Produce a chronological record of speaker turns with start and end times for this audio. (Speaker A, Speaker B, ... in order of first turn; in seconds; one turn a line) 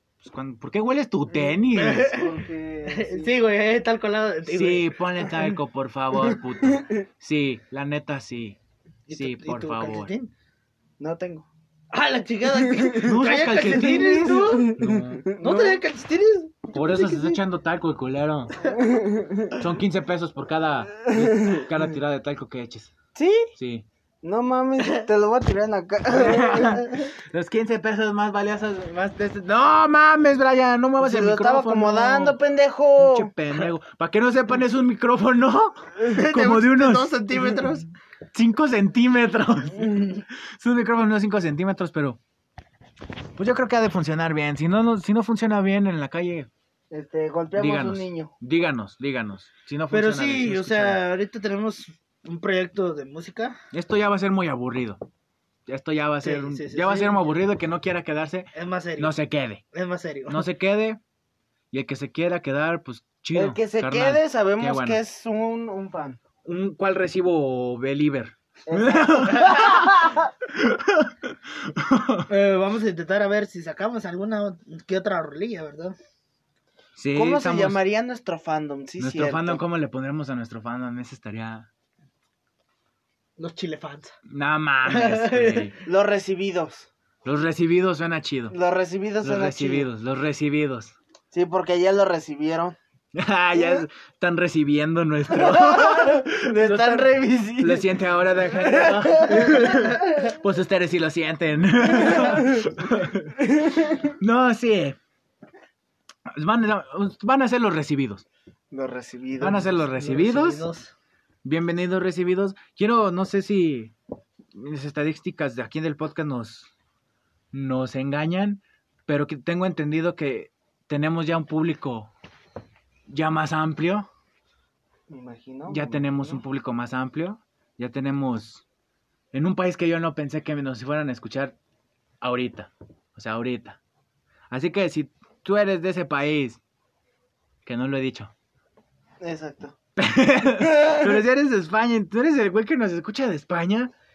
Speaker A: 0.2-2.1
Speaker B: 1.8-2.4
Speaker C: 2.0-3.3
Speaker B: 2.9-5.0
Speaker A: 4.5-8.6
Speaker B: 9.1-10.3
Speaker A: 9.1-10.1
Speaker C: 11.0-11.5
Speaker B: 11.9-14.8
Speaker A: 13.0-15.3
Speaker C: 14.3-15.8
Speaker B: 15.4-17.3
Speaker A: 16.7-18.5
Speaker C: 18.7-19.6
Speaker A: 19.6-22.9
Speaker C: 21.1-21.7
Speaker C: 23.1-23.5
Speaker A: 23.6-23.9
Speaker C: 24.2-27.1
Speaker B: 24.8-25.1
Speaker A: 26.1-32.4
Speaker C: 31.0-33.3
Speaker A: 33.0-37.2
Speaker C: 36.0-37.8
Speaker B: 36.2-37.8
Speaker A: 38.3-42.2
Speaker A: 43.4-46.5
Speaker C: 46.9-48.3
Speaker A: 47.5-51.0
Speaker B: 49.9-53.6
Speaker A: 53.7-55.0
Speaker A: 55.7-59.6
Speaker B: 56.2-57.2
Speaker B: 58.5-59.2
Speaker B: 59.7-60.5
Speaker A: 60.3-61.0
Speaker A: 61.7-65.0
Speaker C: 63.4-66.2
Speaker A: 66.5-72.3
Speaker C: 68.7-70.3
Speaker B: 72.3-76.0
Speaker A: 77.0-77.8
Speaker C: 77.1-79.6
Speaker A: 79.0-81.7
Speaker B: 83.4-84.1
Speaker A: 84.3-85.7
Speaker B: 84.9-85.8
Speaker C: 85.9-86.9
Speaker A: 87.2-88.5
Speaker C: 88.5-89.9
Speaker A: 89.2-91.0
Speaker C: 91.3-92.8
Speaker A: 93.2-103.4
Speaker C: 95.3-97.9
Speaker C: 98.5-100.0
Speaker C: 101.9-102.6
Speaker C: 103.4-104.1
Speaker A: 104.1-105.0
Speaker A: 106.3-108.2
Speaker C: 108.7-109.8
Speaker A: 109.4-110.7
Speaker B: 109.9-110.9
Speaker A: 111.4-114.0
Speaker A: 114.5-116.7
Speaker A: 117.5-122.1
Speaker A: 123.1-124.1
Speaker C: 125.1-126.4
Speaker A: 125.7-128.6
Speaker A: 129.3-131.6
Speaker A: 132.2-133.8
Speaker A: 134.5-136.6
Speaker A: 137.7-138.3
Speaker C: 139.2-139.8
Speaker A: 140.0-143.9
Speaker C: 140.8-141.1